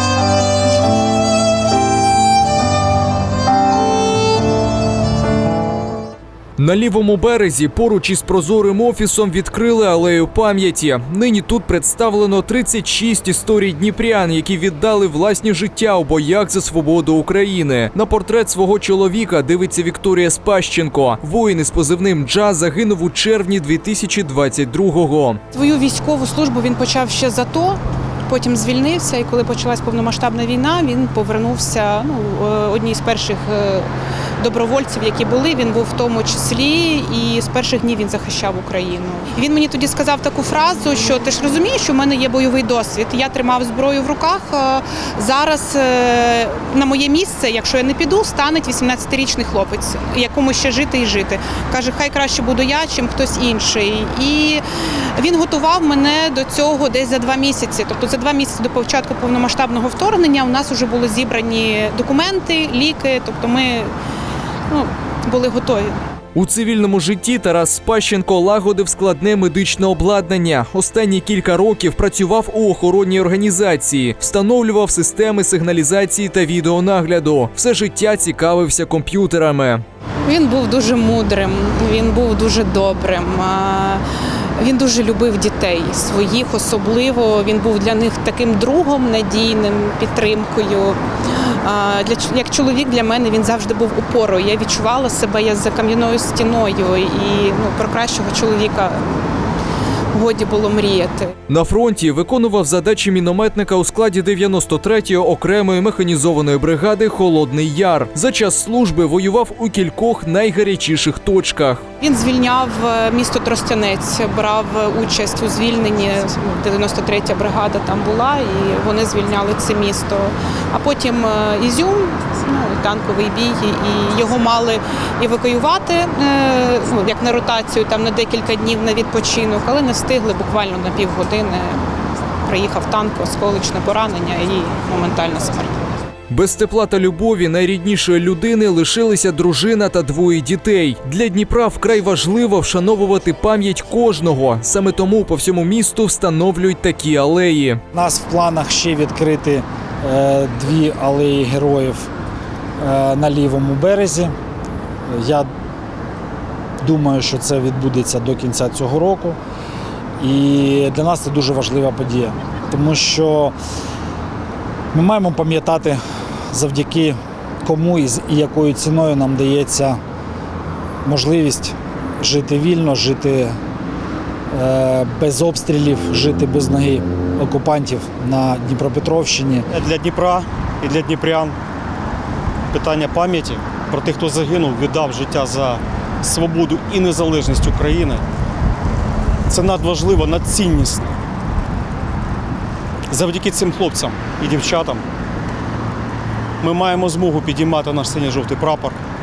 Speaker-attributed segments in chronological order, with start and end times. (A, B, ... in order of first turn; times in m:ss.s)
0:06.6-0:25.4 A
0:25.5-1:03.9 B
1:04.7-1:06.0 B
1:06.3-1:19.8 A
1:20.2-1:24.0 B
1:24.6-1:39.2 B
1:40.1-1:41.3 B
1:41.5-1:51.8 A
1:52.0-2:11.8 B
2:12.4-2:15.8 B
2:16.3-2:27.8 A
2:27.9-2:32.1 C
2:32.8-2:34.3 C
2:35.1-2:35.5 C
2:36.8-2:39.4 C
2:40.2-2:43.6 C
2:44.9-2:46.0 C
2:46.5-2:50.0 C
2:51.0-2:53.6 C
2:54.5-2:59.7 C
2:59.7-3:01.6 D
3:02.7-3:08.2 D
3:09.5-3:11.2 D
3:13.1-3:15.0 D
3:16.6-3:19.0 D